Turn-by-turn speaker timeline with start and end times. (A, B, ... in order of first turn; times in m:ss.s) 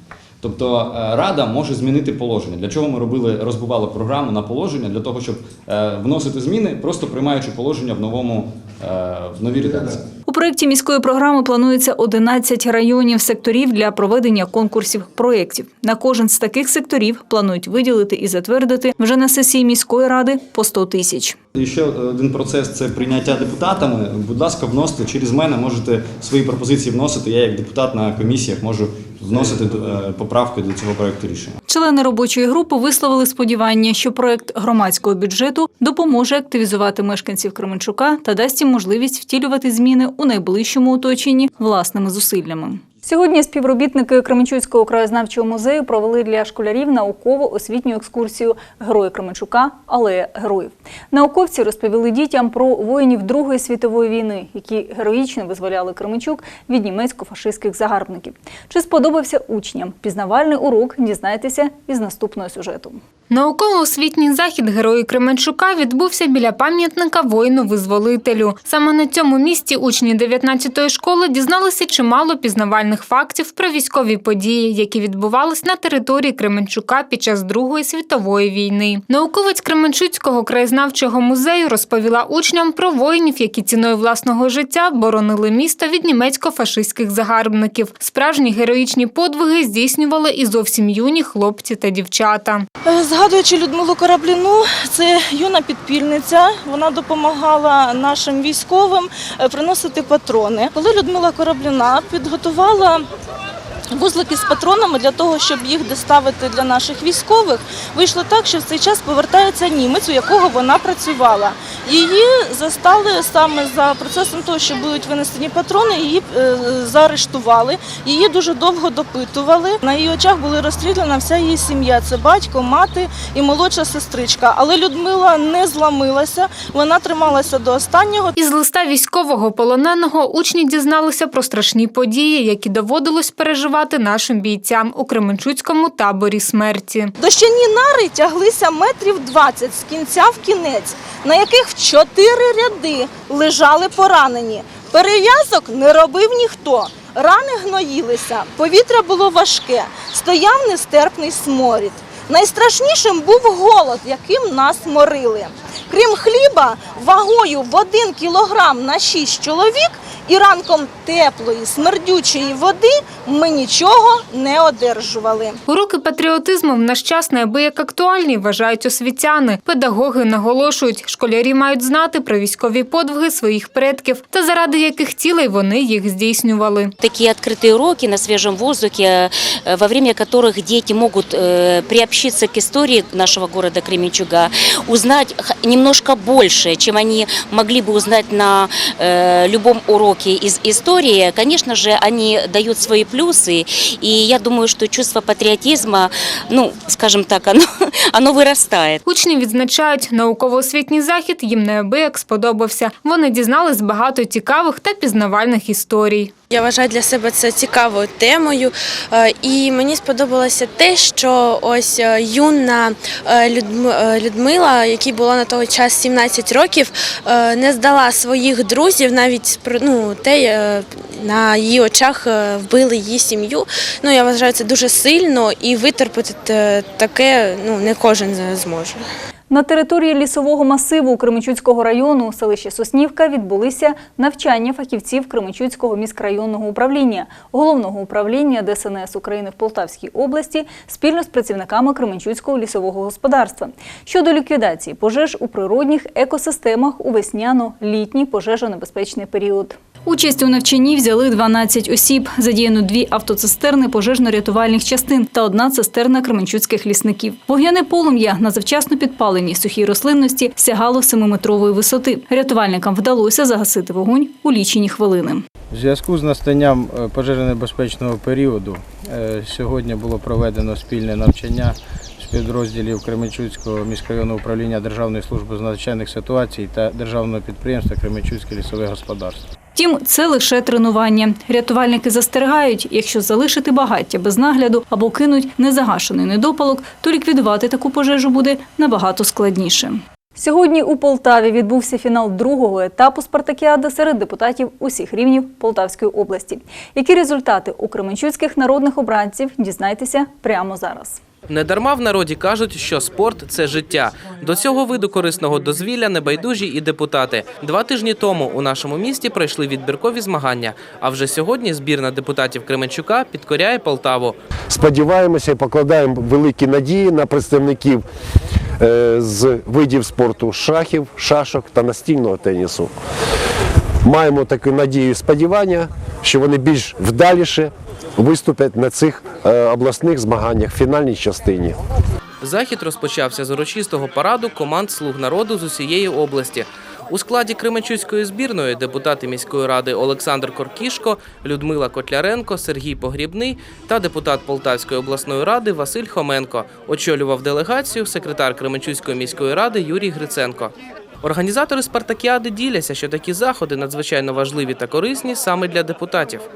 0:00.4-0:10.1 A
0:10.3-0:21.4 B
0:21.6-0:31.6 A
0:31.7-1:03.0 B
1:03.3-1:32.7 C
1:32.8-1:43.1 D
1:43.9-2:08.4 D
2:08.4-2:17.1 C
2:17.2-2:45.6 D
2:45.7-2:56.9 C
2:57.0-3:19.0 E
3:19.1-3:26.3 C
3:26.5-3:49.0 F
3:49.5-4:25.4 B
4:25.7-4:39.4 G
4:39.8-5:01.2 B
5:01.5-5:14.4 H
5:14.7-5:18.0 I
5:18.8-5:22.9 I
5:24.0-5:31.8 I
5:32.4-5:56.5 H